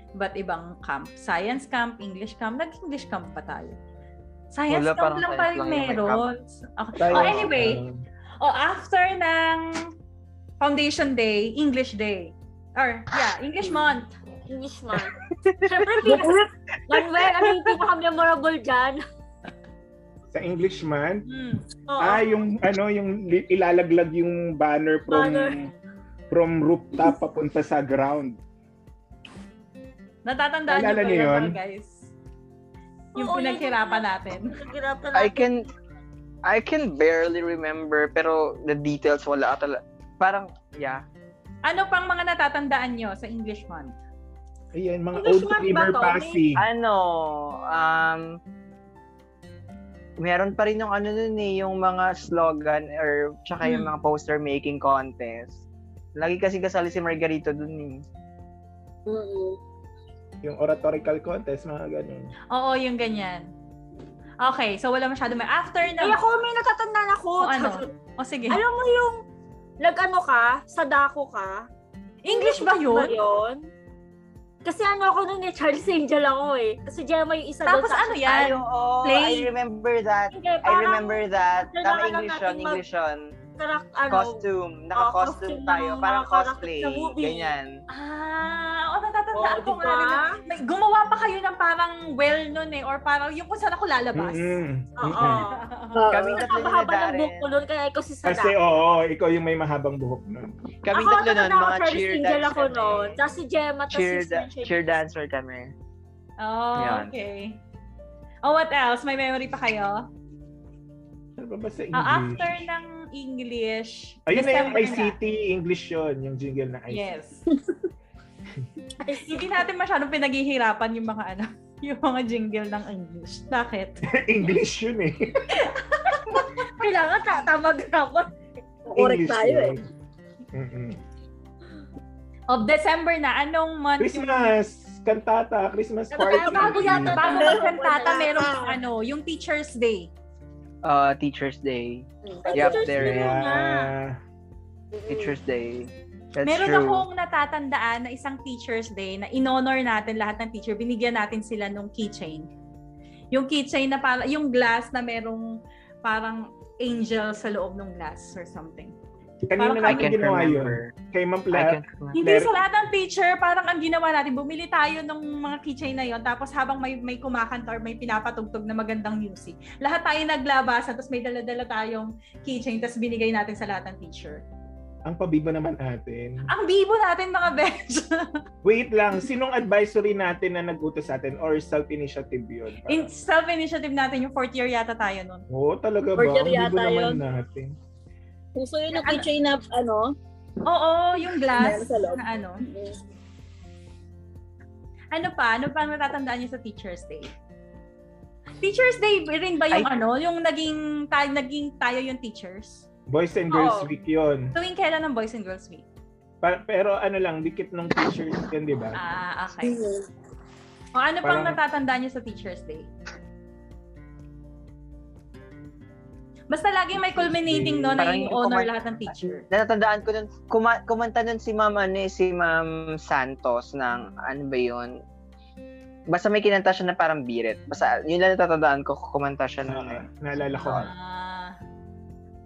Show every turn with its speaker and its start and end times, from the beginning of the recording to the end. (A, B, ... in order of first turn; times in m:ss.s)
0:00.2-0:03.8 A
0:04.5-0:07.8 A
0:04.7-0:06.3 B
0:07.0-0:08.0 C
0:07.1-0:07.5 B
0:08.4-0:09.8 A
0:10.6-0:14.1 A
0:14.5-0:15.1 D
0:15.7-0:19.0 D
0:16.1-0:16.4 E
0:20.3-0:21.2 C
0:21.3-0:21.6 A
0:21.9-0:22.3 D
0:22.0-0:25.7 C
0:25.1-0:25.6 D
0:26.3-0:28.4 C
0:30.3-0:32.0 A
0:30.7-0:31.6 C
0:33.2-0:34.6 A
0:33.2-0:35.5 D
0:35.1-0:35.6 B
0:36.5-0:41.0 B
0:41.7-0:44.0 A
0:44.7-0:46.6 C
0:45.1-0:46.4 D
0:46.6-0:48.3 B
0:50.2-0:55.6 B
0:53.6-0:53.9 A
0:56.2-0:58.0 B
0:59.1-0:59.6 E
1:00.4-1:02.3 C
1:02.5-1:03.5 A
1:04.4-1:06.2 A
1:06.0-1:07.9 D
1:07.4-1:08.6 A
1:08.5-1:09.2 D
1:09.8-1:11.7 D
1:12.2-1:13.2 A
1:12.3-1:13.7 D
1:14.6-1:18.3 D
1:17.7-1:19.5 A
1:18.3-1:23.2 B
1:20.3-1:22.8 D
1:23.6-1:24.4 D
1:24.1-1:27.7 B
1:25.0-1:27.5 D
1:27.9-1:34.6 A
1:29.4-1:30.4 D
1:34.2-1:35.4 C
1:35.0-1:35.6 D
1:35.2-1:36.0 A
1:36.0-1:36.4 E
1:36.1-1:37.5 B
1:36.4-1:38.6 D
1:38.2-1:40.6 C
1:40.8-1:43.2 B
1:40.9-1:44.9 D
1:43.9-1:45.7 B
1:46.4-1:47.6 A
1:46.8-1:47.1 B
1:48.4-1:50.0 A
1:51.4-1:52.7 C
1:52.0-1:55.2 A
1:54.3-1:57.1 C
1:56.9-1:57.4 A
1:59.0-1:59.4 D
1:59.1-2:04.0 A
2:04.2-2:05.4 C
2:05.6-2:06.4 A
2:06.4-2:08.3 D
2:08.9-2:09.8 E
2:09.0-2:09.8 C
2:10.5-2:11.0 C
2:12.5-2:14.5 A
2:14.0-2:17.2 C
2:16.1-2:18.7 E
2:16.2-2:18.5 D
2:17.0-2:20.1 A
2:20.8-2:23.4 B
2:22.2-2:22.8 E
2:22.4-2:23.9 D
2:22.9-2:24.2 C
2:24.9-2:25.3 E
2:25.1-2:27.0 B
2:26.4-2:32.5 A
2:33.3-2:35.5 A
2:36.0-2:39.0 A
2:39.5-2:42.5 C
2:39.6-2:40.1 A
2:39.9-2:40.9 B
2:41.5-2:42.2 B
2:42.2-2:54.4 A
2:55.1-2:56.5 C
2:56.5-2:58.3 A
2:58.6-3:03.1 C
3:02.9-3:05.4 A
3:05.5-3:07.7 C
3:06.2-3:07.2 E
3:08.6-3:10.2 E
3:08.9-3:09.2 A
3:10.6-3:12.6 A
3:11.6-3:13.0 E
3:15.1-3:17.3 A
3:18.6-3:22.9 A
3:23.1-3:24.6 C
3:23.5-3:23.9 D
3:24.6-3:25.8 A
3:26.4-3:29.0 C
3:29.0-3:29.8 A
3:29.6-3:30.0 E
3:31.0-3:32.9 A
3:31.2-3:31.6 C
3:36.5-3:39.4 A
3:36.9-3:38.1 C
3:38.0-3:38.7 B
3:39.5-3:44.9 B
3:46.1-3:50.0 B
3:49.7-3:50.9 C
3:50.5-3:51.6 A